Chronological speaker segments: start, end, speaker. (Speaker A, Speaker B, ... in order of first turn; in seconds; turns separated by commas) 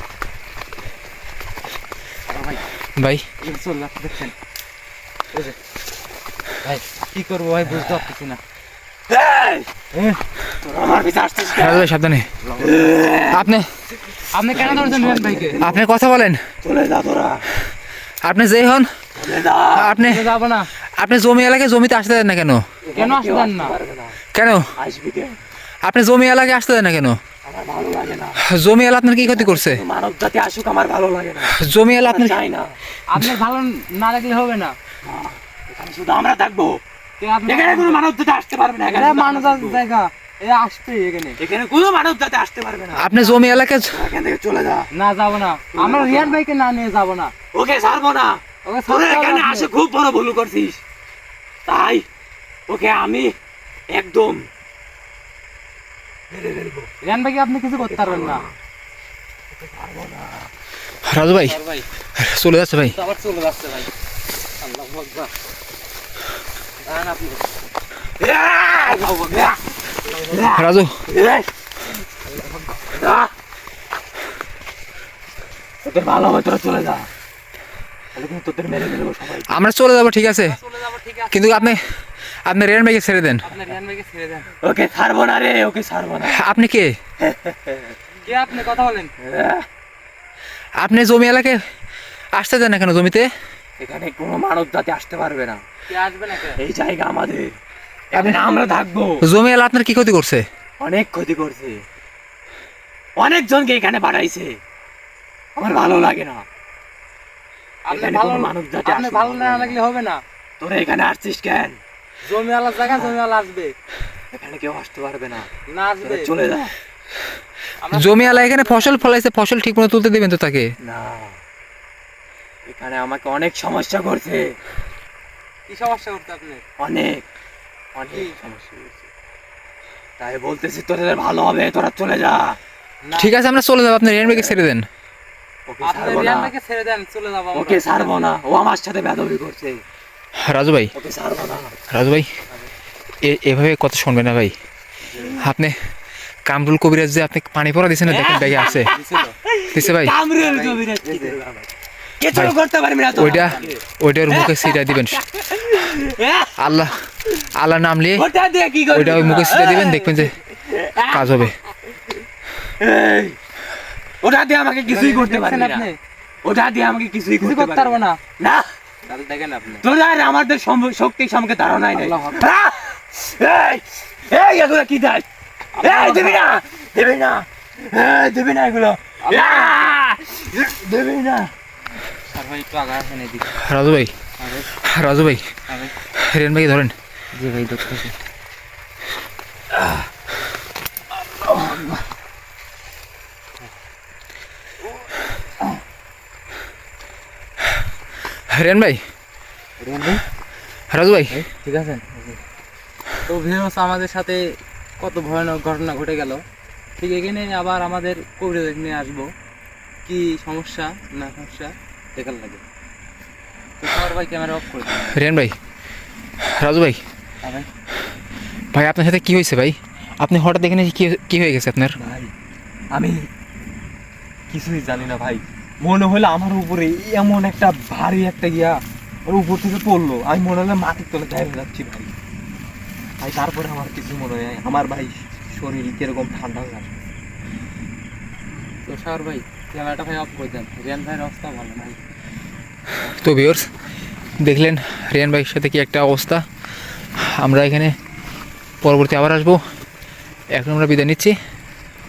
Speaker A: 3.0-3.3, Speaker B: 3.4-4.3, Speaker B: 6.7-8.4, Speaker C: 9.1-9.7, Speaker B: 9.9-10.2, Speaker C: 10.6-11.9, Speaker A: 11.5-12.3, Speaker B: 12.4-13.3, Speaker C: 12.6-13.5, Speaker A: 13.3-13.8, Speaker C: 14.1-15.8, Speaker B: 14.3-15.6, Speaker A: 15.6-16.4, Speaker C: 16.6-17.5, Speaker A: 18.2-18.9, Speaker C: 19.2-20.0, Speaker A: 19.7-22.7, Speaker B: 19.9-20.7, Speaker C: 22.8-24.2, Speaker B: 22.9-23.8, Speaker A: 24.3-24.7, Speaker C: 24.8-25.4, Speaker A: 25.8-27.2, Speaker C: 27.4-28.4, Speaker A: 28.4-29.8, Speaker C: 29.2-32.8, Speaker A: 31.6-32.4, Speaker B: 33.1-34.8, Speaker C: 35.0-36.8, Speaker B: 37.2-38.0, Speaker C: 37.5-39.8, Speaker B: 38.9-41.4, Speaker C: 41.4-43.2, Speaker A: 43.0-43.9, Speaker C: 43.8-44.9, Speaker B: 44.9-47.3, Speaker C: 45.7-46.4, Speaker C: 47.5-50.8, Speaker B: 48.6-49.7, Speaker C: 51.7-52.0, Speaker C: 52.7-53.3, Speaker C: 53.9-54.5, Speaker C: 56.3-56.9, Speaker B: 57.0-58.5, Speaker C: 57.8-58.5, Speaker C: 59.5-60.5, Speaker A: 61.0-61.6, Speaker B: 61.4-61.9, Speaker A: 62.1-63.0, Speaker B: 62.9-63.9, Speaker B: 64.6-65.3, Speaker B: 66.8-67.6, Speaker C: 68.2-71.5, Speaker B: 68.8-70.5, Speaker A: 70.5-71.0, Speaker B: 72.2-72.9, Speaker C: 72.9-73.3, Speaker C: 75.8-77.1, Speaker C: 78.1-79.5, Speaker A: 79.5-80.6, Speaker B: 80.5-81.8, Speaker A: 81.3-83.5, Speaker B: 83.4-84.5, Speaker C: 84.6-86.4, Speaker A: 86.2-87.0, Speaker C: 87.2-87.8, Speaker B: 88.2-89.1, Speaker C: 89.2-89.7, Speaker A: 90.8-91.6, Speaker A: 92.3-93.3, Speaker C: 93.8-95.6, Speaker B: 95.9-96.6, Speaker C: 96.6-97.6, Speaker C: 98.1-99.3, Speaker A: 98.2-98.5, Speaker A: 99.2-100.5, Speaker C: 100.8-101.8, Speaker C: 103.2-104.6, Speaker C: 105.6-106.5, Speaker B: 107.9-110.2, Speaker C: 107.9-109.8, Speaker C: 110.6-111.8, Speaker B: 112.2-113.8, Speaker C: 112.8-113.2, Speaker C: 114.3-115.5, Speaker B: 115.7-116.3, Speaker C: 116.0-116.7, Speaker B: 117.8-119.1, Speaker A: 117.9-120.7, Speaker C: 120.8-121.4, Speaker C: 122.7-124.6, Speaker B: 125.7-126.6, Speaker C: 126.8-127.2, Speaker C: 128.0-129.1, Speaker C: 130.2-132.6, Speaker B: 133.0-133.4, Speaker A: 133.2-134.9, Speaker C: 134.2-134.6, Speaker C: 135.7-136.5, Speaker B: 135.8-138.3, Speaker C: 137.5-139.8, Speaker A: 140.4-140.9, Speaker C: 140.9-141.7, Speaker A: 141.9-142.3, Speaker A: 143.2-144.6, Speaker C: 145.1-145.5, Speaker A: 145.4-145.9, Speaker A: 146.5-149.0, Speaker C: 148.1-151.7, Speaker B: 148.6-149.3, Speaker A: 149.7-150.2, Speaker B: 150.4-151.4, Speaker C: 152.2-156.7, Speaker A: 153.1-155.2, Speaker B: 153.2-153.8, Speaker A: 156.6-158.3, Speaker C: 158.2-161.5, Speaker A: 158.9-160.4, Speaker B: 159.0-160.2, Speaker A: 161.1-161.6, Speaker C: 162.8-163.4, Speaker C: 164.2-165.9, Speaker B: 164.9-166.0, Speaker C: 166.4-168.7, Speaker B: 167.4-168.2, Speaker B: 169.1-169.8, Speaker C: 169.8-175.3, Speaker B: 171.9-172.5, Speaker B: 175.7-176.5, Speaker C: 175.8-181.5, Speaker B: 179.2-180.0, Speaker B: 182.3-183.5, Speaker A: 183.6-184.2, Speaker B: 184.4-184.8, Speaker A: 184.7-185.5, Speaker B: 185.7-185.9, Speaker A: 186.1-186.9, Speaker B: 187.3-188.2, Speaker A: 198.3-199.0, Speaker B: 199.8-200.2, Speaker A: 200.9-201.4, Speaker B: 201.3-202.0, Speaker B: 203.3-206.4, Speaker B: 207.0-209.3, Speaker B: 210.1-212.6, Speaker B: 213.8-215.3, Speaker A: 215.1-215.6, Speaker A: 216.4-217.0, Speaker A: 218.7-222.0, Speaker C: 222.0-222.3, Speaker C: 222.9-223.2, Speaker C: 224.5-232.1, Speaker C: 233.2-237.1, Speaker B: 238.8-242.0, Speaker A: 243.1-243.7, Speaker A: 244.4-246.4, Speaker A: 247.2-248.0, Speaker A: 248.8-249.6, Speaker A: 250.5-251.3